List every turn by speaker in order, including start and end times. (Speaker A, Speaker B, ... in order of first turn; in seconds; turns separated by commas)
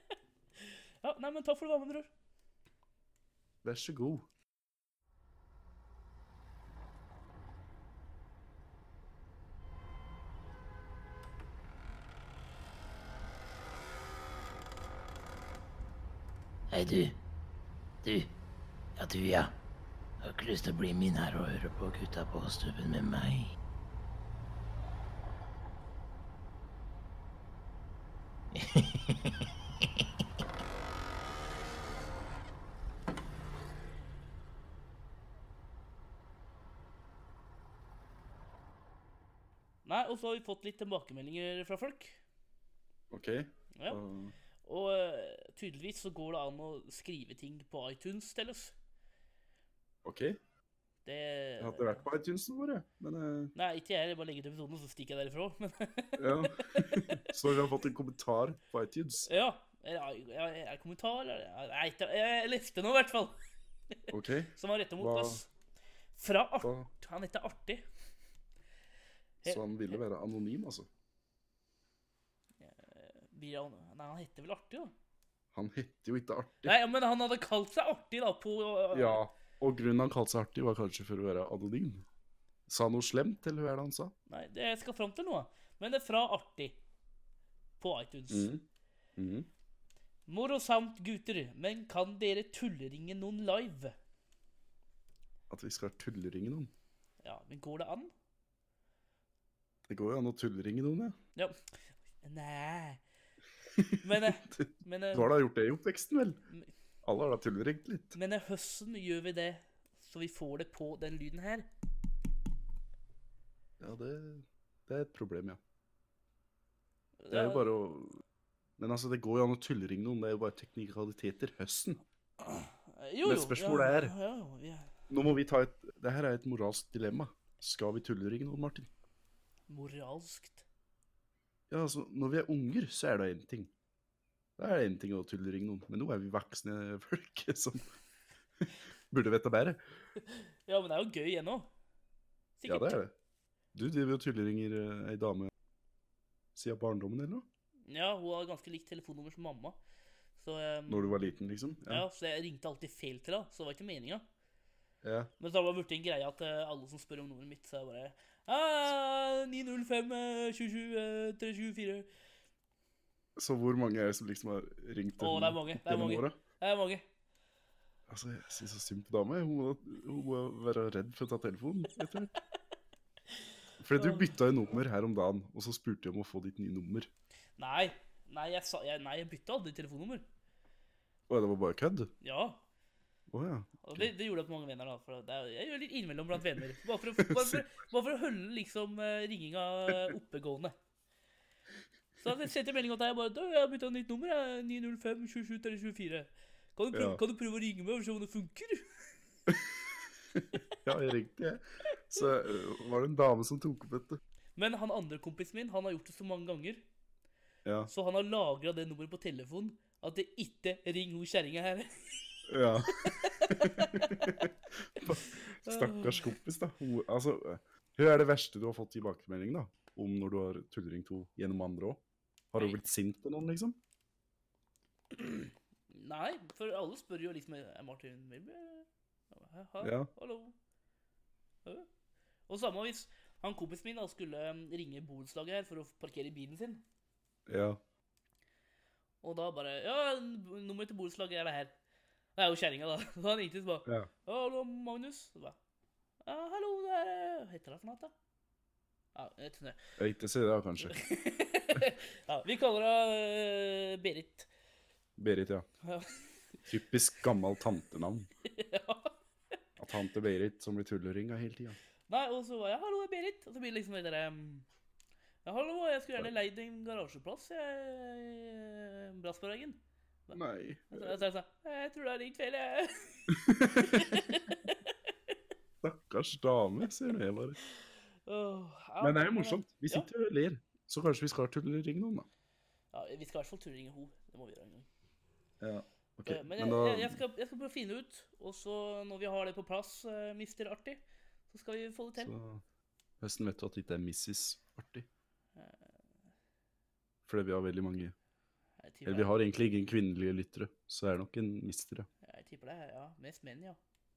Speaker A: 1.0-2.1, Speaker B: 3.6-4.3, Speaker C: 16.7-17.2, Speaker C: 18.0-18.3, Speaker C: 19.0-19.5, Speaker C: 20.2-23.5, Speaker C: 28.5-29.3, Speaker A: 39.9-42.2, Speaker B: 43.1-44.3, Speaker A: 43.8-44.0, Speaker A: 44.6-48.7, Speaker B: 50.0-50.4, Speaker A: 51.0-52.1, Speaker B: 51.6-53.5, Speaker A: 53.5-57.3, Speaker B: 56.2-59.3, Speaker A: 59.3-63.4, Speaker A: 63.9-65.5, Speaker B: 64.1-65.4, Speaker A: 66.2-67.8, Speaker B: 66.6-66.9, Speaker A: 69.4-70.0, Speaker B: 69.5-70.9, Speaker A: 72.6-74.9, Speaker B: 75.5-76.8, Speaker A: 76.7-79.2, Speaker B: 78.9-82.0, Speaker B: 82.7-84.1, Speaker A: 84.3-86.8, Speaker A: 87.8-88.5, Speaker B: 88.3-88.7, Speaker B: 89.2-89.5, Speaker A: 90.3-94.0, Speaker B: 95.5-96.7, Speaker A: 97.2-98.1, Speaker B: 99.9-101.2, Speaker A: 102.2-103.0, Speaker B: 103.8-106.4, Speaker A: 104.0-105.3, Speaker B: 107.0-108.2, Speaker A: 108.1-111.7, Speaker B: 113.8-115.6, Speaker A: 117.2-117.7, Speaker B: 117.3-118.2, Speaker B: 118.8-122.0, Speaker A: 122.4-124.9, Speaker B: 123.2-124.1, Speaker B: 125.1-128.9, Speaker A: 129.7-130.7, Speaker B: 131.7-133.7, Speaker B: 134.6-137.9, Speaker B: 139.1-139.8, Speaker A: 140.2-141.7, Speaker A: 142.6-143.0, Speaker B: 142.7-143.1, Speaker B: 143.7-145.5, Speaker B: 146.6-147.5, Speaker A: 147.9-149.8, Speaker A: 150.4-151.2, Speaker B: 150.9-152.1, Speaker A: 151.9-154.2, Speaker B: 155.0-155.3, Speaker A: 155.4-162.1, Speaker B: 163.4-166.4, Speaker A: 165.2-167.0, Speaker B: 168.1-172.3, Speaker B: 173.8-177.1, Speaker A: 174.0-174.3, Speaker A: 177.6-180.2, Speaker B: 181.3-182.1, Speaker A: 182.2-182.6, Speaker B: 183.3-184.1, Speaker A: 183.8-190.8, Speaker B: 187.2-187.7, Speaker A: 192.2-198.8, Speaker B: 196.9-197.2, Speaker B: 200.3-204.2, Speaker A: 204.6-206.8, Speaker B: 207.7-207.9, Speaker A: 207.9-212.2, Speaker B: 212.5-223.8, Speaker A: 212.9-214.5, Speaker A: 215.1-216.3, Speaker A: 225.3-230.6, Speaker B: 229.8-230.1, Speaker A: 232.5-236.8, Speaker B: 237.5-237.8, Speaker A: 239.2-241.7, Speaker A: 242.4-245.6, Speaker A: 246.2-248.1, Speaker A: 249.2-249.8, Speaker B: 250.0-251.0, Speaker A: 250.8-254.5, Speaker B: 255.2-255.7, Speaker A: 255.8-256.2, Speaker B: 256.7-258.3, Speaker A: 258.5-259.2, Speaker B: 259.8-261.8, Speaker A: 262.1-264.7, Speaker A: 265.4-274.9, Speaker B: 270.3-271.2, Speaker B: 273.3-274.2, Speaker B: 275.8-277.6, Speaker A: 278.3-280.1, Speaker B: 279.0-282.3, Speaker A: 282.9-284.9, Speaker B: 285.6-287.2, Speaker A: 286.3-292.3, Speaker B: 292.2-292.6, Speaker B: 293.2-295.1, Speaker A: 295.6-295.8, Speaker B: 297.3-298.1, Speaker A: 298.8-299.4, Speaker B: 299.1-302.1, Speaker A: 302.2-303.8